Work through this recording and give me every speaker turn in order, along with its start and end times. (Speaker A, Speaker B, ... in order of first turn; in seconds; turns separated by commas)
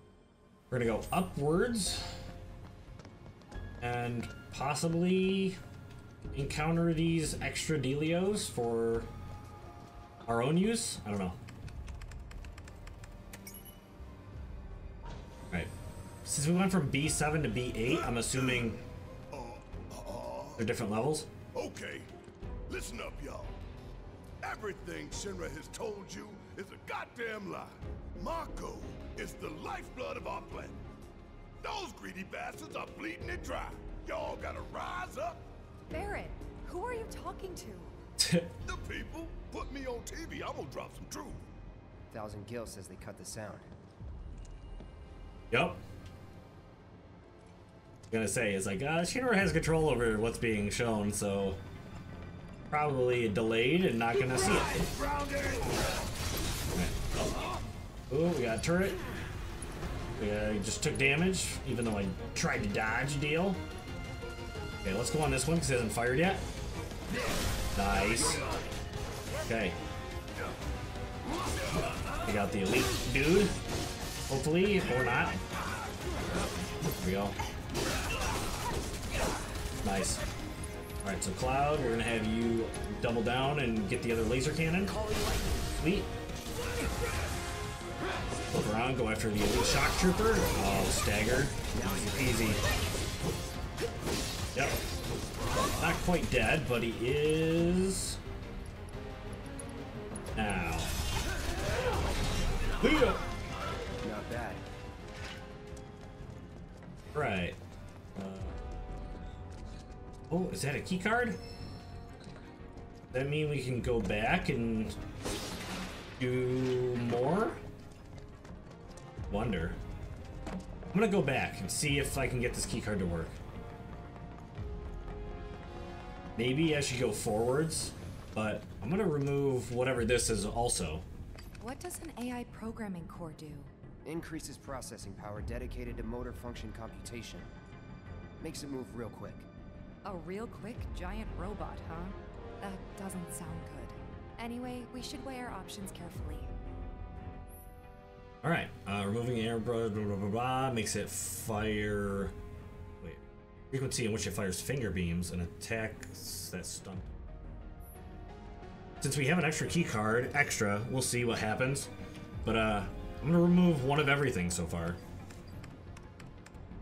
Speaker A: 0.7-2.1, Speaker A: 3.8-5.6, Speaker A: 6.3-9.1, Speaker A: 10.2-11.4, Speaker A: 16.2-18.8, Speaker B: 19.3-20.6, Speaker A: 20.6-21.3, Speaker B: 21.5-22.1, Speaker B: 22.7-23.6, Speaker B: 24.4-30.8, Speaker B: 31.6-35.5, Speaker C: 35.9-37.9, Speaker A: 38.2-38.5, Speaker B: 38.6-41.4, Speaker D: 42.1-43.7, Speaker A: 45.5-45.8, Speaker A: 48.1-51.6, Speaker A: 52.7-54.8, Speaker A: 58.1-59.0, Speaker A: 60.2-63.6, Speaker A: 64.8-66.4, Speaker A: 67.7-68.5, Speaker A: 69.5-69.8, Speaker A: 72.2-73.5, Speaker A: 74.3-75.4, Speaker A: 76.9-77.3, Speaker A: 79.8-80.2, Speaker A: 81.0-85.0, Speaker D: 84.8-85.7, Speaker A: 85.7-86.1, Speaker A: 88.5-92.6, Speaker D: 91.7-92.6, Speaker A: 94.5-94.8, Speaker A: 95.8-98.2, Speaker A: 100.3-100.9, Speaker A: 102.8-103.2, Speaker D: 104.0-104.6, Speaker A: 107.1-107.6, Speaker A: 108.2-108.5, Speaker A: 110.3-111.4, Speaker A: 113.1-114.9, Speaker A: 116.2-117.6, Speaker A: 119.3-119.8, Speaker A: 120.9-123.4, Speaker A: 126.3-131.0, Speaker C: 131.6-133.7, Speaker D: 134.0-137.5, Speaker D: 138.4-139.5, Speaker C: 140.0-146.5, Speaker A: 148.4-152.3, Speaker A: 153.0-157.2, Speaker A: 159.0-161.9, Speaker A: 162.4-165.0